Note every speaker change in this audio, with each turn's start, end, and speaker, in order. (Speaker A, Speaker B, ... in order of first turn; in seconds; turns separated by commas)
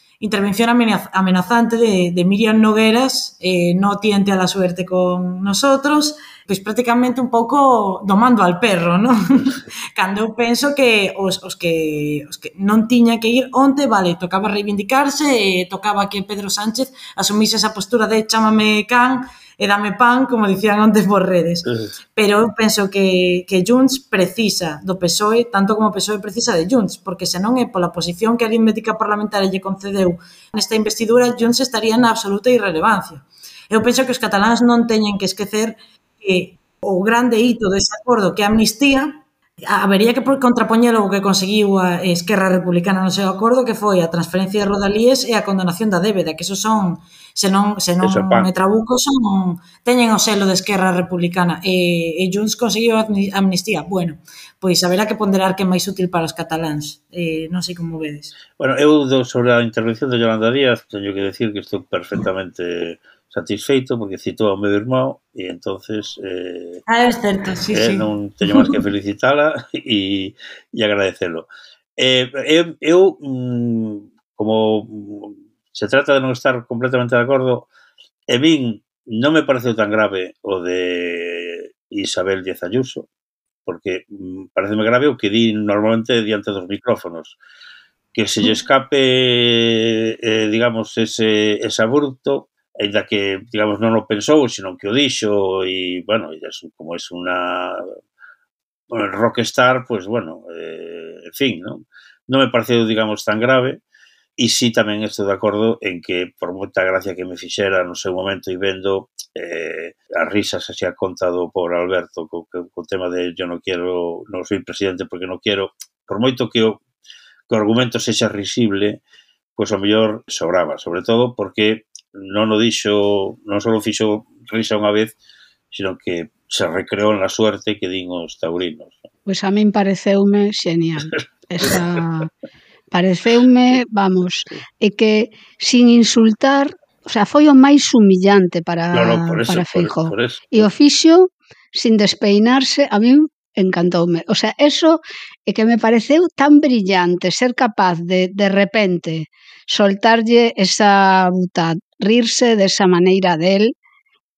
Speaker A: 0.2-58.4, Speaker B: 48.0-48.5, Speaker B: 58.6-66.8, Speaker A: 66.9-68.7, Speaker B: 67.7-77.7, Speaker B: 78.3-83.1, Speaker B: 83.7-87.4, Speaker B: 88.1-97.9, Speaker B: 98.9-103.8, Speaker B: 104.4-116.8, Speaker B: 117.5-119.0, Speaker B: 119.5-125.1, Speaker B: 125.7-129.0, Speaker C: 129.3-132.3, Speaker B: 131.6-132.0, Speaker C: 132.9-153.7, Speaker B: 138.9-140.7